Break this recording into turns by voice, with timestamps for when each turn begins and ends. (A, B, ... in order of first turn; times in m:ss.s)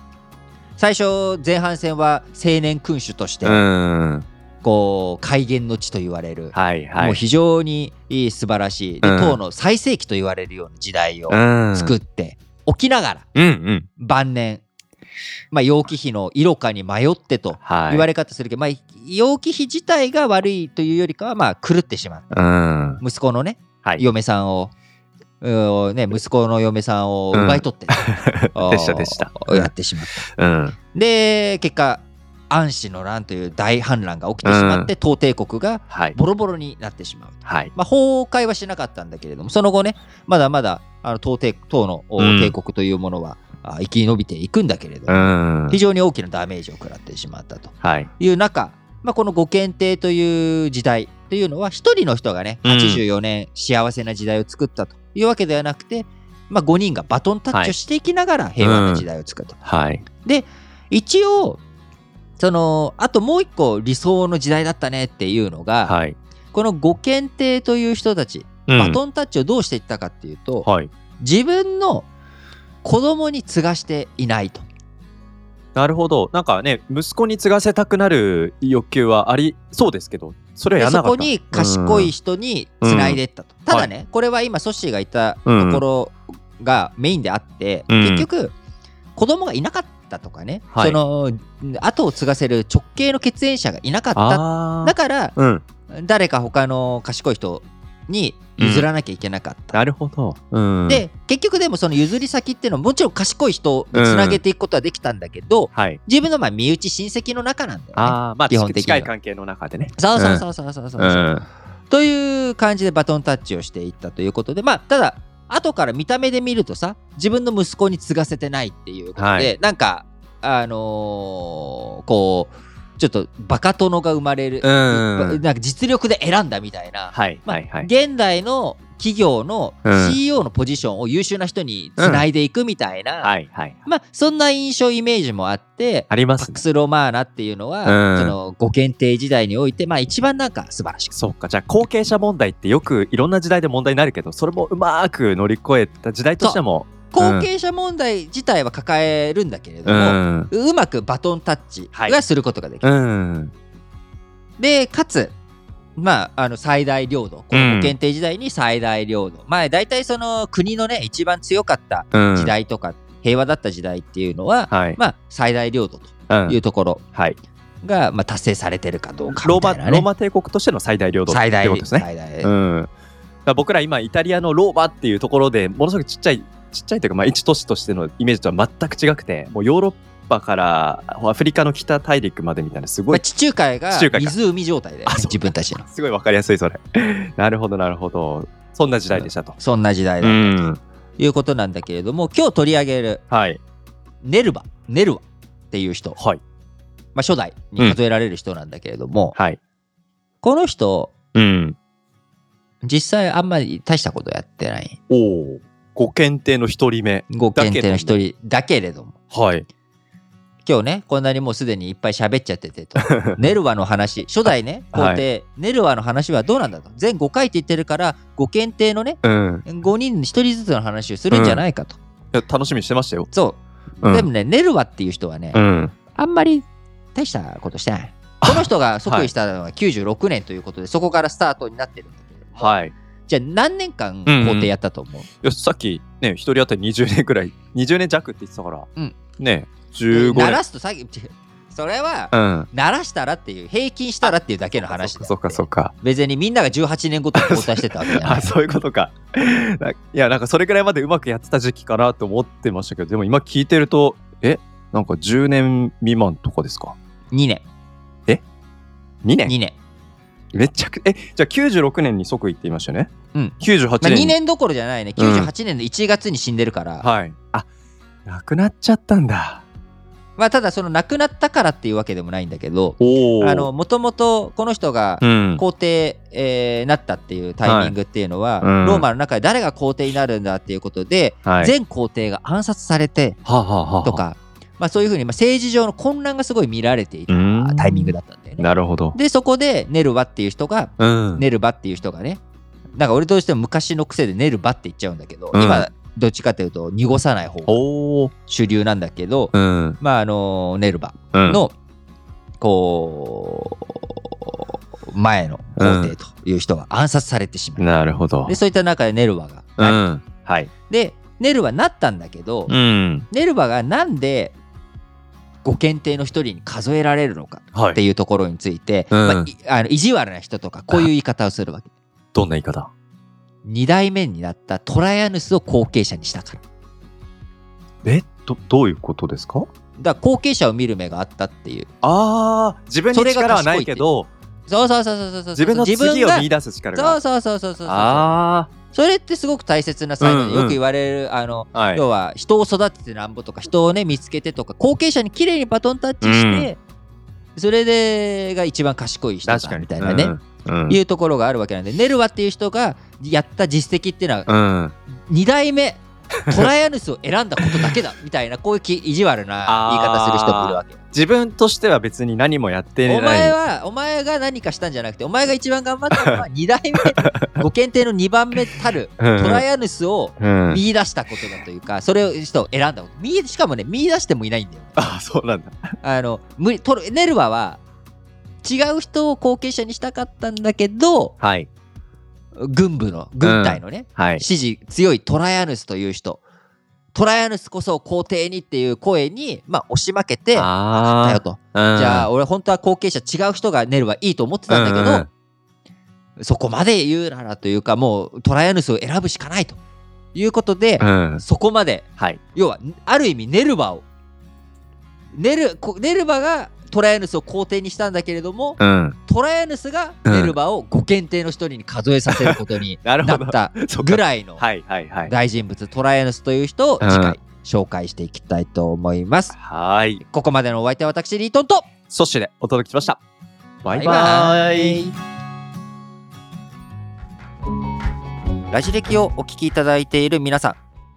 0:00.8-0:03.6 A
0:03.4-0:04.2 B
0:04.6-0:13.2 A
0:06.5-0:07.2 B
0:09.0-0:09.4 B
0:11.3-0:11.9 B
0:13.3-0:13.9 B
0:14.0-0:14.6 A
0:15.5-0:22.4 A
0:17.6-0:18.1 B
0:22.3-0:23.0 B
0:23.0-0:24.7 A
0:25.4-0:30.2 A
0:27.3-0:29.7 B
0:30.3-0:30.8 B
0:30.8-0:59.6 A
0:34.4-0:34.9 B
0:35.9-0:36.2 B
0:37.4-0:37.7 B
0:42.2-0:42.5 B
0:45.1-0:45.8 B
0:47.8-0:48.1 B
0:52.6-0:53.0 B
0:58.6-0:59.0 B
0:59.6-1:00.0 B
1:00.2-1:01.6 A
1:02.4-1:05.9 A
1:05.8-1:06.2 B
1:06.5-1:10.7 A
1:08.7-1:09.0 B
1:10.6-1:10.9 B
1:11.2-1:12.1 A
1:12.8-1:14.6 A
1:15.7-1:22.1 B
1:20.8-1:28.5 A
1:22.8-1:23.2 B
1:25.4-1:25.8 B
1:27.9-1:28.3 B
1:29.2-1:35.3 A
1:30.7-1:31.0 B
1:34.1-1:35.6 B
1:35.9-1:39.8 A
1:38.6-1:38.9 B
1:39.7-1:41.0 B
1:40.9-1:49.1 A
1:43.9-1:44.4 B
1:45.7-1:46.0 B
1:48.0-1:50.4 B
1:50.0-1:51.3 A
1:51.0-1:51.4 B
1:51.9-2:13.3 A
1:59.2-1:59.5 B
2:04.6-2:05.4 B
2:07.1-2:07.9 B
2:09.8-2:10.2 B
2:12.0-2:12.2 B
2:13.2-2:13.8 B
2:13.8-2:21.2 A
2:16.1-2:16.6 B
2:17.8-2:18.4 B
2:21.1-2:27.5 B
2:27.1-2:32.8 A
2:29.8-2:30.5 B
2:31.9-2:32.2 B
2:32.8-2:33.5 B
2:34.6-2:35.3 A
2:36.0-2:47.0 A
2:37.5-2:37.9 B
2:42.1-2:42.5 B
2:44.7-2:45.0 B
2:46.3-2:46.6 B
2:47.8-2:50.1 A
2:49.3-2:52.9 B
2:51.3-2:52.5 A
2:53.4-3:03.2 B
3:03.1-3:05.8 A
3:03.9-3:04.4 B
3:05.0-3:09.6 B
3:09.1-3:10.6 A
3:10.2-3:10.8 B
3:11.2-3:13.2 A
3:13.3-3:13.6 B
3:14.2-3:16.2 A
3:17.1-3:19.3 A
3:20.4-3:21.1 A
3:21.3-3:21.8 B
3:22.8-3:25.0 A
3:25.1-3:28.1 B
3:27.3-3:29.2 A
3:29.3-3:29.6 B
3:30.6-3:42.0 A
3:33.0-3:33.4 B
3:34.9-3:35.2 B
3:39.2-3:39.6 B
3:41.3-3:41.6 B
3:42.3-3:43.3 B
3:43.3-3:45.6 A
3:44.0-3:44.3 B
3:45.5-3:45.9 B
3:46.1-3:52.8 A
3:48.4-3:49.3 B
3:52.6-3:52.9 B
3:53.3-3:55.3 A
3:54.2-3:54.7 B
3:55.4-3:58.9 B
3:59.4-4:00.6 B
4:00.1-4:08.5 A
4:02.3-4:02.7 B
4:04.2-4:05.9 B
4:07.3-4:17.0 B
4:17.3-4:17.6 A
4:19.2-4:19.5 B
4:19.4-4:19.8 A
4:20.5-4:24.4 B
4:23.3-4:27.1 A
4:25.2-4:25.5 B
4:27.0-4:27.7 B
4:28.2-4:29.6 B
4:30.4-4:43.4 A
4:33.0-4:33.7 B
4:35.2-4:35.6 B
4:37.6-4:37.9 B
4:38.6-4:39.0 B
4:41.4-4:41.7 B
4:43.4-4:44.2 B
4:44.0-4:52.4 A
4:47.3-4:49.2 B
4:51.0-4:51.4 B
4:53.0-4:57.8 A
4:55.5-4:55.9 B
4:57.7-4:58.3 B
4:58.5-5:01.7 A
4:59.5-5:00.0 B
5:01.3-5:01.6 B
5:02.6-5:07.9 A
5:05.8-5:06.1 B
5:07.8-5:08.6 B
5:08.4-5:10.0 A
5:09.8-5:10.7 B
5:10.9-5:12.7 A
5:12.7-5:13.3 B
5:13.3-5:14.5 A
5:15.6-5:21.9 A
5:17.7-5:18.0 B
5:19.1-5:19.5 B
5:22.3-5:22.9 B
5:23.6-5:26.6 A
5:28.0-5:29.7 B
5:30.0-5:31.9 A
5:32.0-5:34.3 B
5:33.1-5:34.0 A
5:34.7-5:38.3 A
5:35.6-5:37.2 B
5:37.8-5:38.7 B
5:38.9-5:46.8 A
5:40.2-5:40.8 B
5:41.7-5:42.0 B
5:46.2-5:46.7 B
5:47.6-5:50.4 A
5:49.4-5:51.0 B
5:50.9-5:54.5 A
5:54.5-5:54.9 B
5:55.3-6:01.0 A
5:57.6-5:58.0 B
5:59.6-6:03.6 B
6:03.0-6:15.1 A
6:06.1-6:06.4 B
6:07.0-6:07.6 B
6:09.2-6:09.6 B
6:10.4-6:10.8 B
6:15.0-6:15.8 B
6:16.0-6:17.8 A
6:18.6-6:21.3 A
6:21.4-6:21.7 B
6:22.6-6:26.4 A
6:23.4-6:24.4 B
6:27.1-6:35.3 A
6:30.5-6:32.3 B
6:34.7-6:35.3 B
6:36.4-6:39.8 A
6:40.3-6:44.0 A
6:41.0-6:41.4 B
6:45.3-6:54.6 A
6:48.8-6:49.2 B
6:50.2-6:50.6 B
6:52.3-6:55.3 B
6:55.3-6:59.5 A
6:57.0-6:57.4 B
6:59.5-7:00.2 B
7:00.2-7:01.9 A
7:02.1-7:03.2 B
7:03.8-7:05.1 B
7:03.9-7:05.1 A
7:08.7-7:10.8 A